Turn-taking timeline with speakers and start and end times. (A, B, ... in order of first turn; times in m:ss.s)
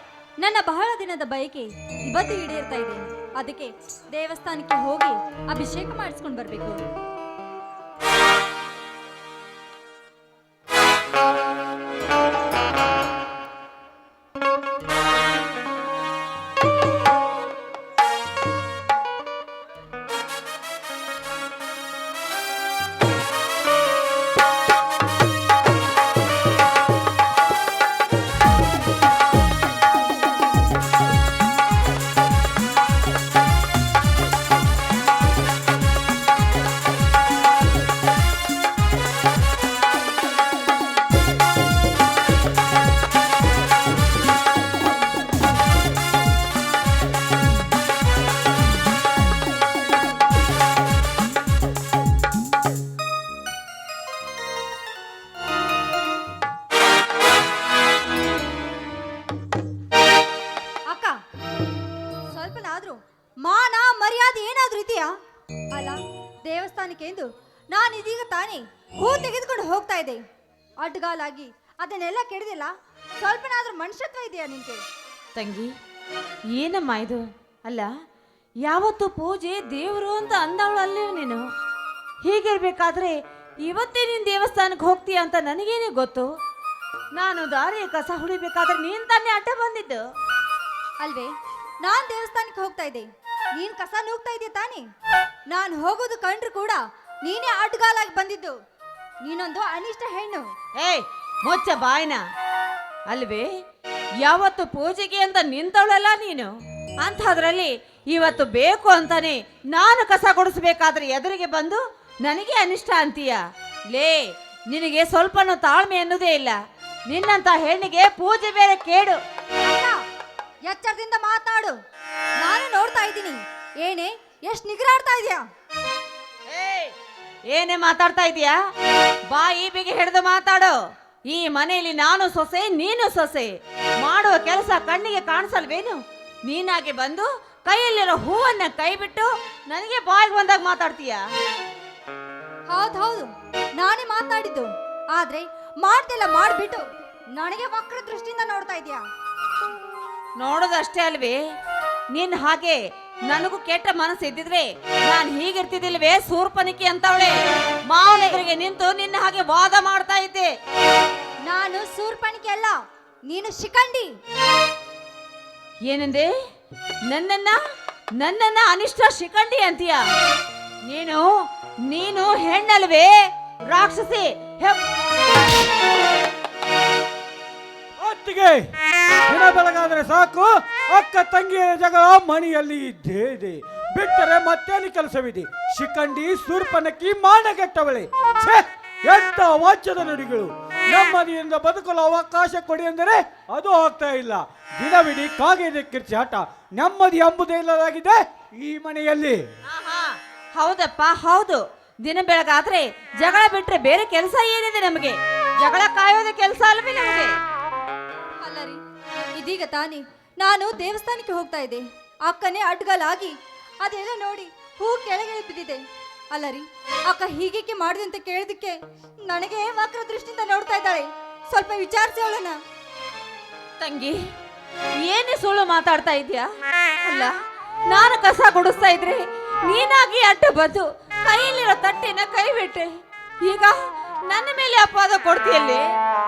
0:00.4-0:06.8 A
1:02.3-1:05.1 A
1:05.7-1:10.2 A
1:10.8-1:14.8 A
1:15.4-1:15.7 B
1:16.5-1:17.9 B
1:18.6-1:21.4 B
1:22.2-1:26.3 B
1:27.2-1:30.0 B
1:31.0-1:31.3 A
1:31.8-1:34.8 A
1:35.5-1:38.6 A
1:39.2-1:40.4 A
1:40.8-1:42.2 B
1:43.1-1:43.5 B
1:44.2-1:46.5 B
1:47.0-1:53.4 B
1:53.9-1:56.6 B
1:57.1-1:59.2 B
1:59.6-2:00.0 A
2:00.7-2:01.8 A
2:02.4-2:05.4 A
2:06.5-2:06.9 B
2:07.5-2:08.6 B
2:09.3-2:10.8 B
2:11.3-2:21.2 B
2:22.7-2:29.0 A
2:30.4-2:31.4 B
2:32.1-2:37.4 B
2:37.9-2:40.5 B
2:41.5-2:42.8 A
2:43.3-2:44.1 A
2:45.9-2:46.3 B
2:47.1-2:47.6 B
2:48.2-2:50.0 B
2:50.9-2:51.3 B
2:51.9-2:53.1 B
2:53.7-2:54.9 B
2:58.0-2:58.6 C
2:59.3-3:19.4 C
3:19.7-3:27.3 B
3:28.4-3:28.8 A
3:29.4-3:35.8 A
3:36.3-3:38.8 A
3:39.3-3:42.6 A
3:43.8-3:44.2 B
3:45.0-3:46.5 B
3:47.0-3:47.4 B
3:47.9-3:55.8 B